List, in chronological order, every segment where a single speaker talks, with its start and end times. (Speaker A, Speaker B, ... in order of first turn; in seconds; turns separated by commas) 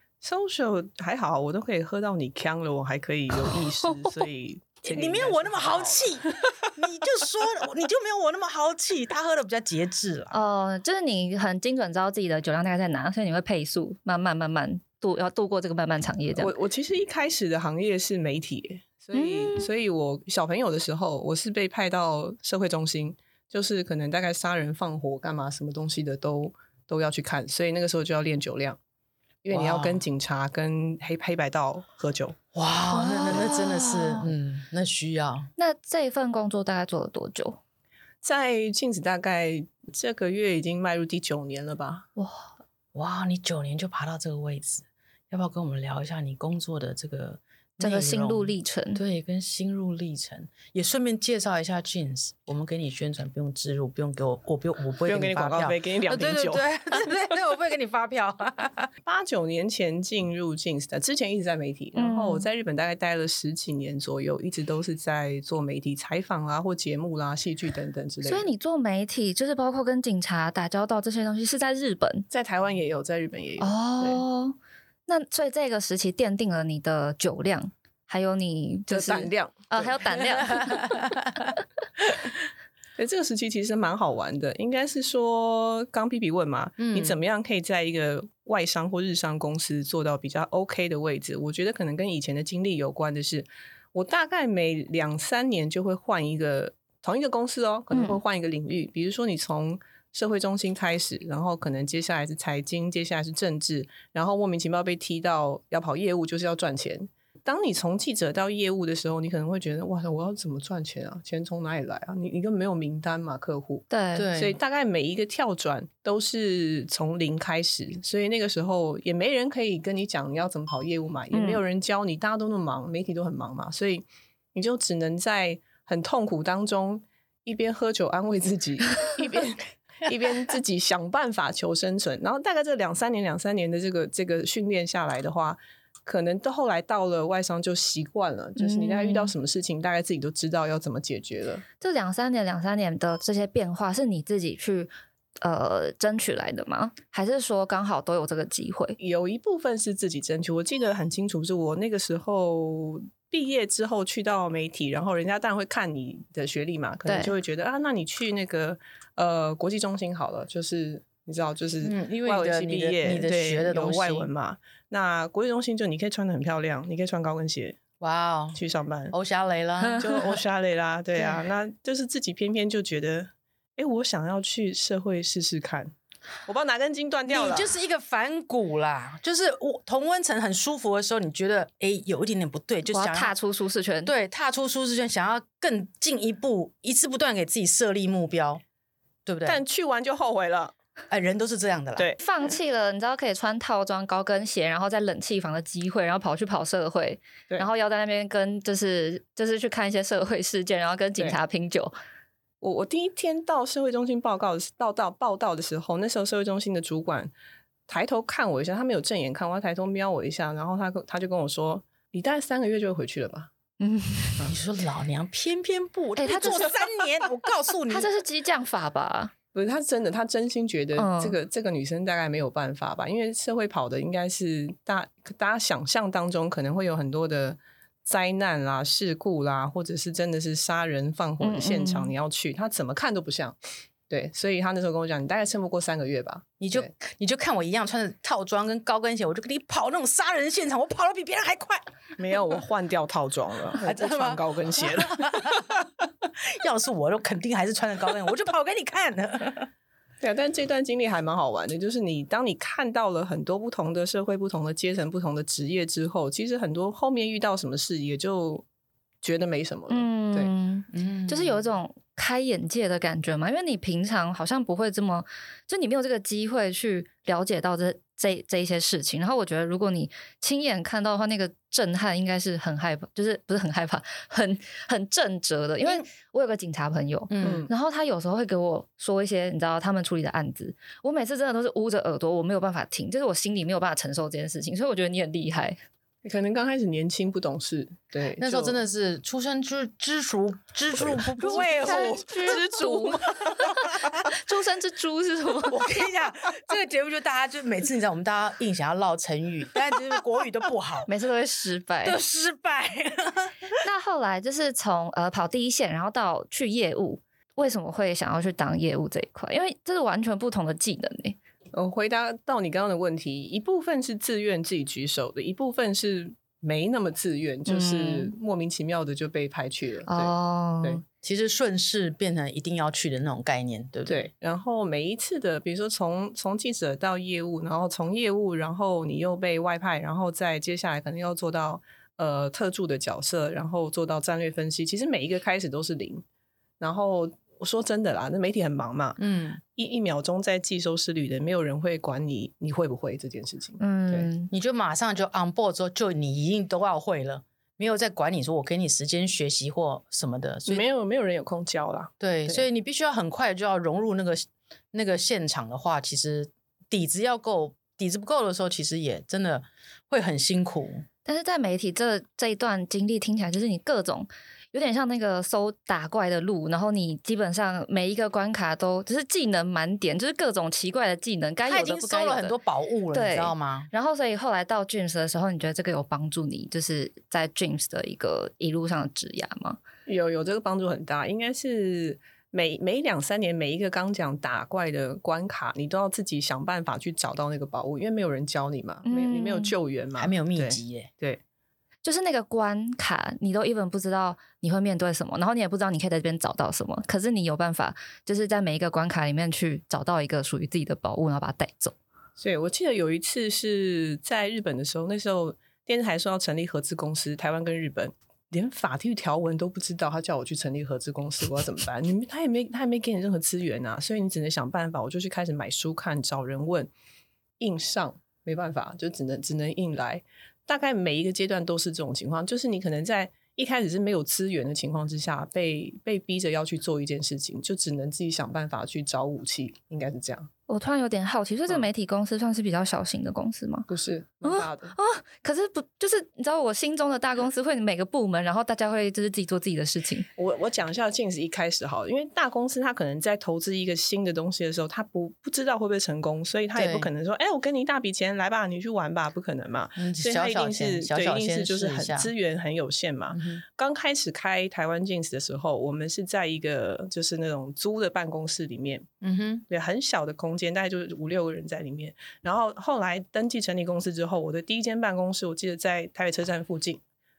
Speaker A: 0.2-6.3, Speaker B: 3.9-4.1, Speaker C: 4.8-10.3, Speaker B: 10.3-16.5, Speaker A: 16.4-28.8, Speaker B: 19.1-19.7, Speaker A: 29.4-32.4, Speaker C: 29.5-30.0, Speaker C: 32.5-35.5, Speaker B: 32.9-34.3, Speaker B: 35.6-37.6, Speaker A: 38.2-42.1, Speaker B: 42.2-42.5, Speaker C: 42.9-58.9, Speaker B: 47.8-49.0, Speaker A: 55.0-56.6, Speaker A: 59.0-68.5, Speaker B: 61.9-62.5, Speaker B: 68.2-72.3, Speaker A: 72.3-74.2, Speaker B: 73.6-81.0, Speaker A: 78.9-80.2, Speaker C: 80.6-81.1, Speaker A: 83.0-141.6, Speaker C: 86.8-87.2, Speaker B: 97.9-98.2, Speaker B: 113.9-114.3, Speaker C: 114.2-114.6, Speaker B: 121.3-121.6, Speaker B: 138.6-139.3, Speaker B: 141.8-149.0, Speaker A: 149.0-167.8, Speaker B: 157.1-157.3, Speaker C: 161.8-164.3, Speaker C: 168.0-168.6, Speaker A: 168.6-169.2, Speaker C: 169.1-170.3, Speaker B: 169.8-170.1, Speaker A: 170.0-175.9, Speaker A: 176.4-177.7, Speaker C: 177.3-183.3, Speaker B: 182.9-184.1, Speaker C: 184.0-188.6, Speaker C: 189.2-189.6, Speaker A: 189.4-190.7, Speaker C: 191.1-192.1, Speaker B: 192.2-201.9, Speaker A: 202.6-207.3, Speaker A: 207.9-213.5, Speaker B: 213.8-214.4, Speaker C: 214.4-218.1, Speaker B: 216.2-216.7, Speaker B: 217.9-219.3, Speaker A: 219.5-233.6, Speaker B: 221.0-221.3, Speaker B: 231.4-232.1, Speaker A: 234.1-236.9, Speaker C: 236.6-241.8, Speaker A: 242.2-245.7, Speaker C: 243.8-245.9, Speaker C: 246.4-249.7, Speaker A: 250.2-258.6, Speaker A: 259.2-260.5, Speaker B: 259.9-285.8, Speaker C: 260.9-261.6, Speaker C: 277.3-277.7, Speaker A: 277.4-277.7, Speaker A: 286.2-288.8, Speaker C: 288.4-292.7, Speaker B: 291.4-296.1, Speaker A: 291.5-293.7, Speaker C: 293.5-294.1, Speaker C: 295.7-301.1, Speaker B: 301.1-302.2, Speaker C: 302.0-303.7, Speaker B: 303.8-311.4, Speaker A: 311.7-321.0, Speaker B: 317.7-318.3, Speaker B: 320.1-321.0, Speaker C: 321.2-324.2, Speaker A: 324.1-336.2, Speaker A: 336.8-339.2, Speaker C: 339.2-339.6, Speaker A: 339.7-344.3, Speaker B: 343.8-344.5, Speaker C: 344.5-350.8, Speaker A: 350.7-352.7, Speaker C: 352.2-361.0, Speaker B: 361.2-372.6, Speaker C: 371.6-373.9, Speaker B: 373.1-379.8, Speaker A: 380.1-391.4, Speaker B: 389.1-389.7, Speaker C: 390.2-391.1, Speaker B: 392.0-401.9, Speaker A: 402.4-416.9, Speaker A: 417.6-430.5, Speaker B: 430.7-433.9, Speaker A: 433.9-434.9, Speaker B: 434.4-440.3, Speaker A: 440.4-459.1, Speaker C: 446.7-447.1, Speaker C: 450.0-452.3, Speaker C: 453.3-453.6, Speaker C: 459.2-459.6, Speaker A: 459.7-467.0